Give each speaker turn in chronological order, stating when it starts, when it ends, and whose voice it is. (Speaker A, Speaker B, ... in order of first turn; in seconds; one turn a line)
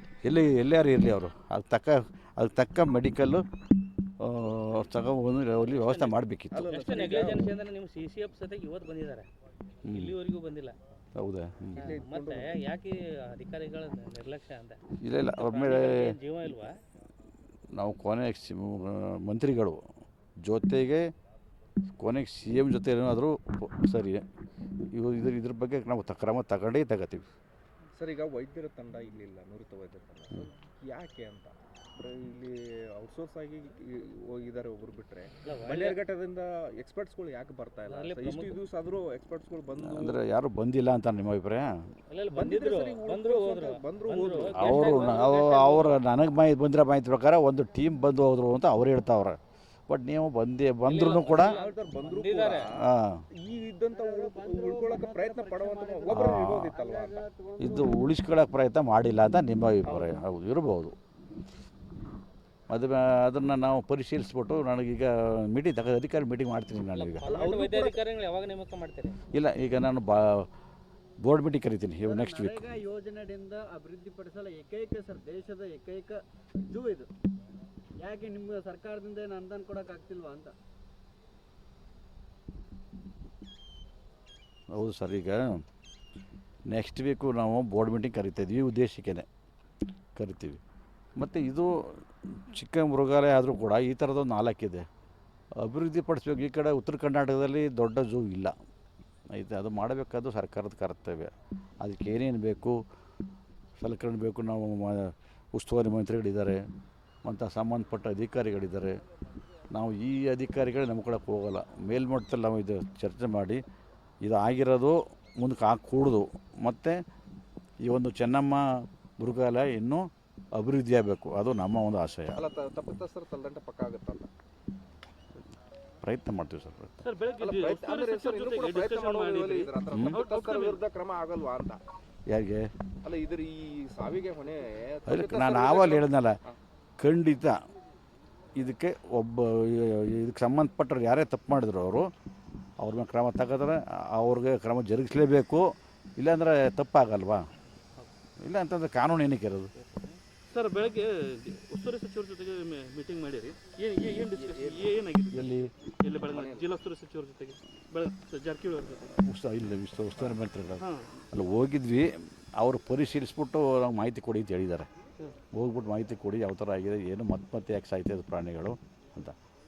Speaker A: 0.2-3.4
Speaker A: 4.2-6.7
Speaker B: 5.6-9.3
Speaker C: 6.6-7.4
Speaker A: 9.9-10.2
Speaker B: 9.9-10.8
Speaker A: 11.2-12.0
Speaker B: 11.8-14.8
Speaker C: 11.9-12.5
Speaker A: 15.0-16.2
Speaker B: 15.4-16.8
Speaker A: 17.8-19.8
Speaker A: 20.4-21.1
Speaker A: 22.0-24.2
Speaker A: 24.9-27.3
Speaker C: 27.9-40.2
Speaker B: 35.4-36.0
Speaker B: 37.9-38.6
Speaker A: 39.8-41.7
Speaker B: 42.1-45.7
Speaker C: 42.3-45.7
Speaker A: 44.5-51.6
Speaker B: 50.9-52.7
Speaker D: 51.4-52.5
Speaker C: 51.6-52.6
Speaker A: 52.8-53.2
Speaker C: 53.3-57.1
Speaker D: 53.9-58.0
Speaker A: 56.1-56.8
Speaker A: 57.6-61.0
Speaker B: 59.9-60.2
Speaker A: 62.7-67.3
Speaker B: 66.9-69.2
Speaker C: 67.3-68.0
Speaker A: 69.3-70.5
Speaker A: 71.2-72.7
Speaker D: 72.1-77.1
Speaker D: 78.0-80.5
Speaker A: 84.7-85.6
Speaker A: 86.7-89.3
Speaker A: 90.2-90.6
Speaker A: 91.2-94.9
Speaker A: 95.6-98.5
Speaker A: 99.3-101.3
Speaker A: 101.8-102.8
Speaker A: 103.8-106.6
Speaker A: 107.2-109.0
Speaker A: 109.7-113.6
Speaker A: 114.2-117.0
Speaker A: 117.8-118.7
Speaker A: 119.2-122.5
Speaker C: 122.3-124.3
Speaker A: 126.0-126.9
Speaker E: 127.0-130.8
Speaker C: 127.4-131.8
Speaker A: 129.9-130.2
Speaker A: 132.3-132.7
Speaker C: 133.0-136.6
Speaker A: 135.1-136.4
Speaker A: 137.0-137.6
Speaker A: 138.6-142.1
Speaker A: 142.8-147.4
Speaker A: 148.4-149.7
Speaker E: 149.8-159.2
Speaker C: 154.3-154.9
Speaker A: 155.3-155.7
Speaker C: 156.3-156.7
Speaker A: 159.2-164.9
Speaker E: 160.8-161.1
Speaker A: 165.5-169.4